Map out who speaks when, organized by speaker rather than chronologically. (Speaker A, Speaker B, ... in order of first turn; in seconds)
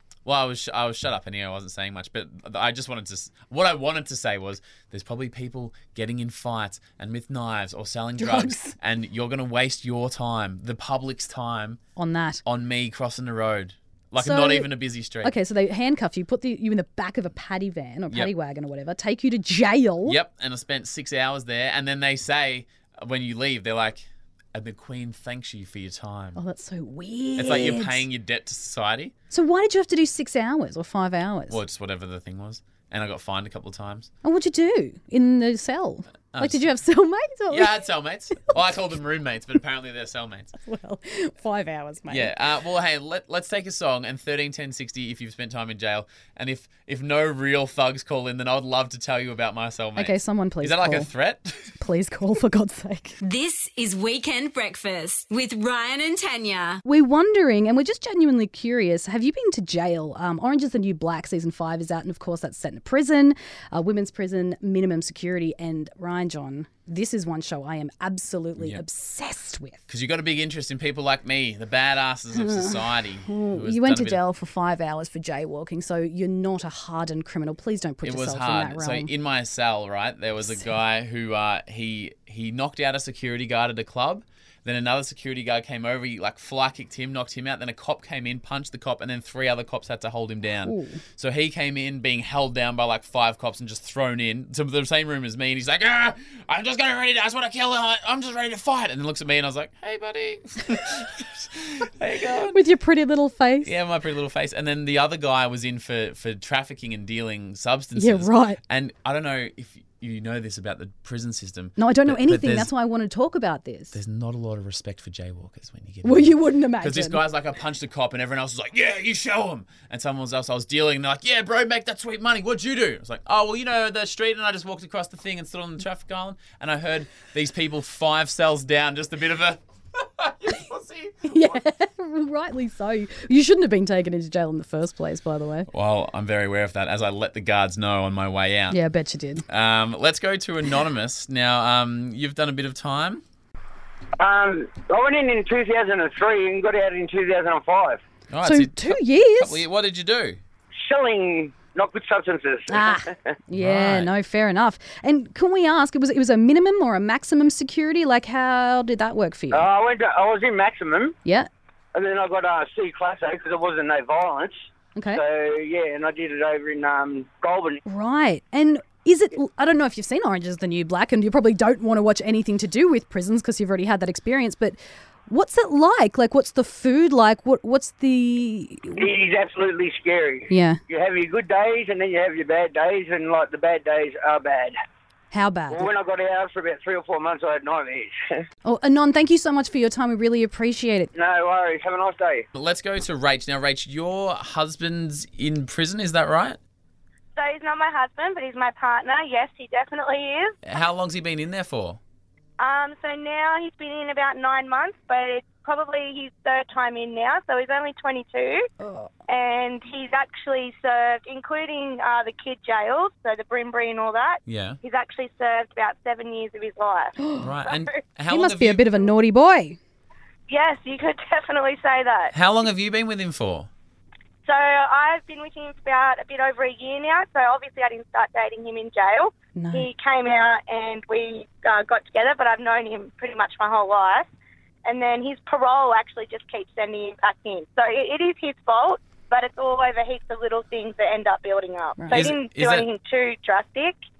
Speaker A: 0.2-11.8, 12.4-15.3, 20.0-26.4, 27.4-29.1, 31.5-34.1, 36.3-36.7, 37.5-40.5, 42.1-51.7, 69.9-74.2, 78.0-102.6, 103.6-112.7, 113.9-131.6, 135.7-138.8, 139.5-143.2, 148.3-150.4, 153.5-154.1, 192.5-196.6, 200.6-202.0, 214.5-214.8, 217.4-219.0, 222.3-223.7, 242.1-242.8
Speaker B: 8.2-8.8, 11.9-12.4, 14.2-14.7, 15.2-20.2, 26.4-28.0, 29.3-31.6, 34.2-37.8, 40.6-42.3, 50.0-51.1, 51.8-53.2, 56.8-69.8, 72.3-79.1, 90.6-91.0, 102.5-103.7, 108.0-108.6, 111.8-113.9, 116.0-117.2, 131.3-135.7, 138.7-139.4, 148.4-149.6, 152.7-159.7, 164.9-165.2, 167.8-179.1, 180.5-180.8, 185.3-185.9, 188.6-191.1, 208.8-209.1, 217.2-217.5, 218.3-219.8, 229.5-229.9, 242.0-242.2
Speaker C: 53.2-56.8
Speaker D: 144.2-148.0, 150.8-153.2, 159.5-161.1, 161.9-164.5, 165.1-167.8, 178.9-184.7, 185.7-188.2, 191.1-192.4
Speaker E: 197.3-200.5, 202.6-208.7, 209.3-217.9, 220.5-222.3, 224.4-234.3, 234.8-244.0